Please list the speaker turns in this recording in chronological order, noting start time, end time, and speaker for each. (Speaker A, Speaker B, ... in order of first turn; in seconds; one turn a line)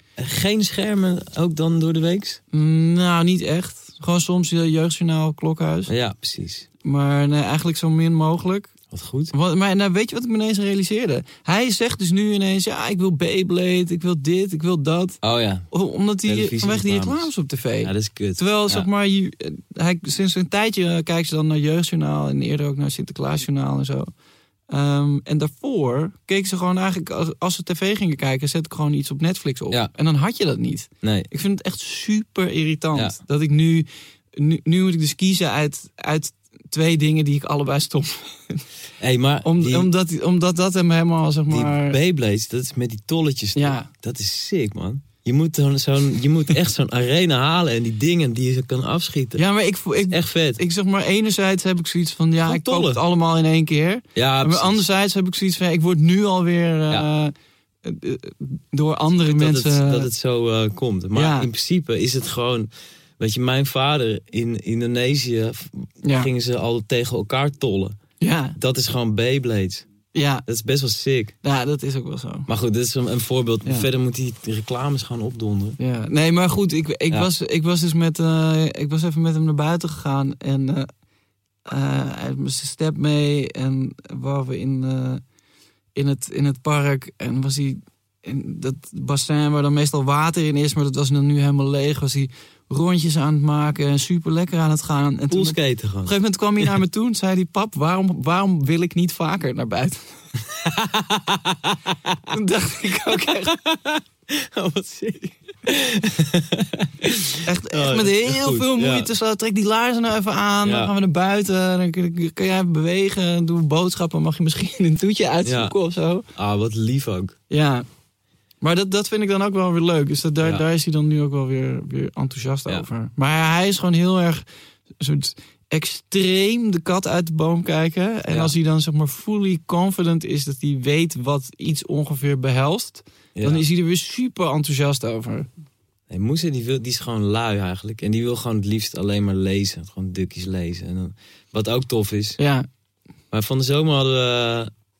Speaker A: 0.2-2.4
Speaker B: 2.5-5.9
Speaker A: 5.9-6.7
Speaker B: 6.8-8.7
Speaker A: 8.9-9.3
Speaker B: 9.3-15.2
Speaker A: 15.2-15.7
Speaker B: 15.7-24.1
Speaker A: 16.2-17.3
Speaker A: 17.8-18.9
Speaker B: 24.7-38.6
Speaker A: 31.0-31.3
Speaker A: 39.0-39.9
Speaker B: 39.4-42.0
Speaker A: 41.5-49.4
Speaker B: 43.5-43.9
Speaker B: 49.4-57.3
Speaker A: 50.1-50.6
Speaker A: 52.4-53.0
Speaker A: 54.1-54.8
Speaker B: 57.8-60.1
Speaker A: 59.3-68.0
Speaker B: 61.1-61.5
Speaker B: 66.0-66.3
Speaker B: 68.2-68.6
Speaker A: 68.6-69.9
Speaker B: 70.1-70.4
Speaker A: 70.5-71.3
Speaker B: 71.4-72.5
Speaker A: 72.5-75.8
Speaker B: 75.8-80.9
Speaker B: 81.7-85.2
Speaker B: 85.9-100.2
Speaker A: 95.3-96.7
Speaker A: 100.5-102.2
Speaker B: 102.3-103.6
Speaker A: 103.6-109.1
Speaker B: 107.4-116.3
Speaker A: 110.6-110.9
Speaker A: 115.4-115.7
Speaker A: 116.3-117.3
Speaker B: 117.5-117.8
Speaker B: 118.6-124.4
Speaker B: 125.0-135.5
Speaker A: 128.3-128.5
Speaker A: 133.3-133.7
Speaker A: 136.1-142.4
Speaker B: 142.4-142.7
Speaker A: 143.3-144.7